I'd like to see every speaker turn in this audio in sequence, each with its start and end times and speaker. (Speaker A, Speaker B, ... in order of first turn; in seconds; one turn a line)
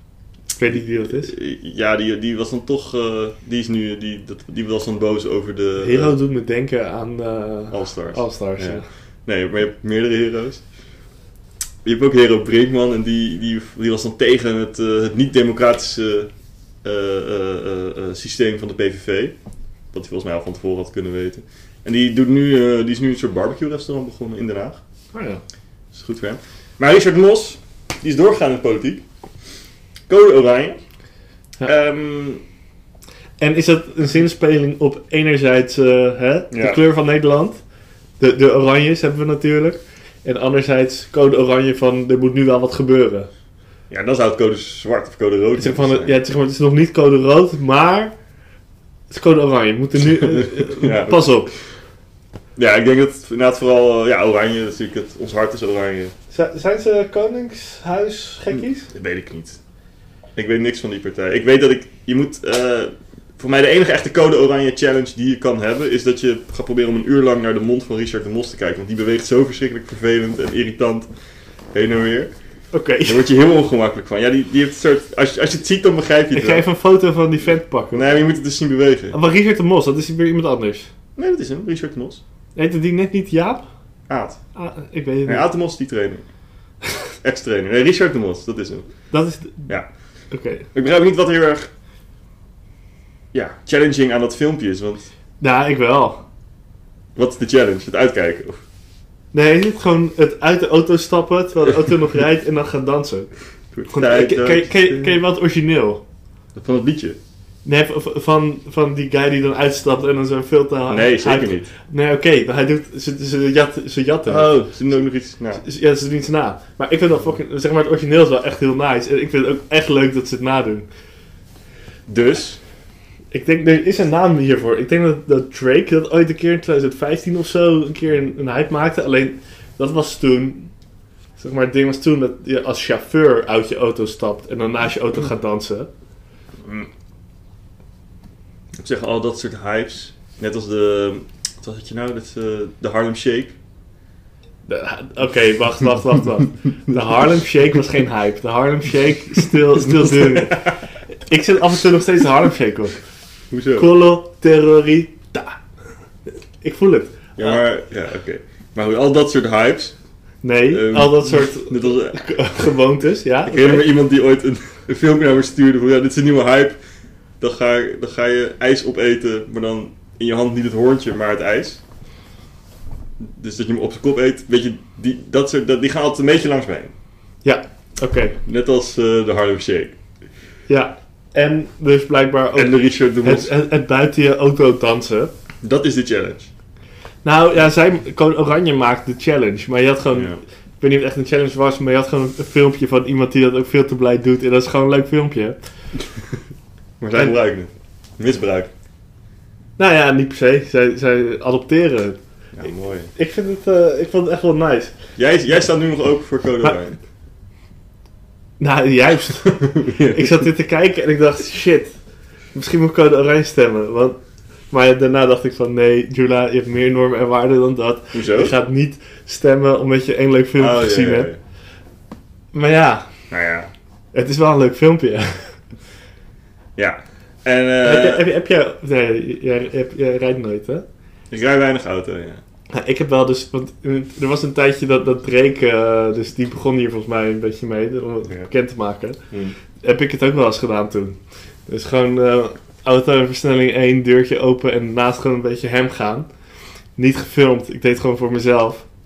Speaker A: 0.6-1.3
Speaker B: 1.1-6.1
Speaker A: 5.8-8.8
Speaker B: 7.7-10.6
Speaker B: 11.8-16.3
Speaker B: 16.8-19.3
Speaker B: 19.9-24.8
Speaker A: 25.1-25.4
Speaker B: 25.9-29.0
Speaker B: 30.1-30.8
Speaker B: 31.6-32.4
Speaker A: 33.4-37.6
Speaker B: 36.5-36.8
Speaker A: 38.2-43.3
Speaker B: 43.9-46.2
Speaker A: 45.6-48.1
Speaker A: 49.1-51.5
Speaker B: 50.2-51.4
Speaker B: 52.5-56.1
Speaker A: 56.3-58.9
Speaker B: 58.5-59.6
Speaker B: 60.4-71.1
Speaker B: 71.7-72.3
Speaker A: 72.7-73.2
Speaker B: 73.0-76.7
Speaker A: 76.3-78.1
Speaker B: 77.9-79.2
Speaker A: 79.1-80.9
Speaker B: 81.2-82.2
Speaker A: 82.5-83.6
Speaker B: 84.1-84.4
Speaker A: 84.5-85.5
Speaker B: 85.2-86.2
Speaker B: 87.2-88.9
Speaker A: 89.1-89.7
Speaker A: 90.3-90.7
Speaker B: 90.7-91.7
Speaker B: 93.3-95.1
Speaker A: 95.4-96.2
Speaker B: 97.2-98.6
Speaker A: 99.3-103.3
Speaker B: 103.7-105.2
Speaker A: 103.9-106.0
Speaker B: 106.5-107.2
Speaker A: 107.6-114.6
Speaker B: 110.9-111.7
Speaker B: 114.2-115.6
Speaker A: 115.6-120.9
Speaker B: 122.1-122.6
Speaker A: 123.3-130.7
Speaker A: 131.4-135.9
Speaker B: 136.6-136.9
Speaker B: 138.8-143.6
Speaker A: 144.7-150.7
Speaker B: 149.9-150.8
Speaker A: 151.3-153.0
Speaker B: 153.5-153.9
Speaker A: 153.8-155.6
Speaker A: 156.6-157.6
Speaker B: 157.4-159.9
Speaker A: 160.4-163.9
Speaker B: 160.7-162.2
Speaker B: 163.4-166.8
Speaker B: 167.4-171.8
Speaker B: 173.2-176.9
Speaker A: 177.4-178.4
Speaker B: 178.4-179.9
Speaker A: 180.7-185.3
Speaker B: 182.5-183.5
Speaker B: 185.6-186.5
Speaker A: 187.2-195.6
Speaker B: 190.1-190.4
Speaker B: 197.0-198.7
Speaker A: 199.8-202.2
Speaker B: 202.6-203.1
Speaker A: 203.1-204.9
Speaker B: 205.2-207.0
Speaker A: 208.6-211.9
Speaker B: 209.4-210.4
Speaker A: 212.5-214.2
Speaker A: 214.7-221.3
Speaker B: 218.1-218.5
Speaker B: 220.6-221.4
Speaker A: 222.5-223.1
Speaker B: 223.3-223.7
Speaker A: 224.1-225.5
Speaker B: 226.8-228.2
Speaker A: 227.8-230.8
Speaker B: 231.3-232.4
Speaker A: 232.7-239.2
Speaker A: 239.8-246.3
Speaker A: 247.0-248.8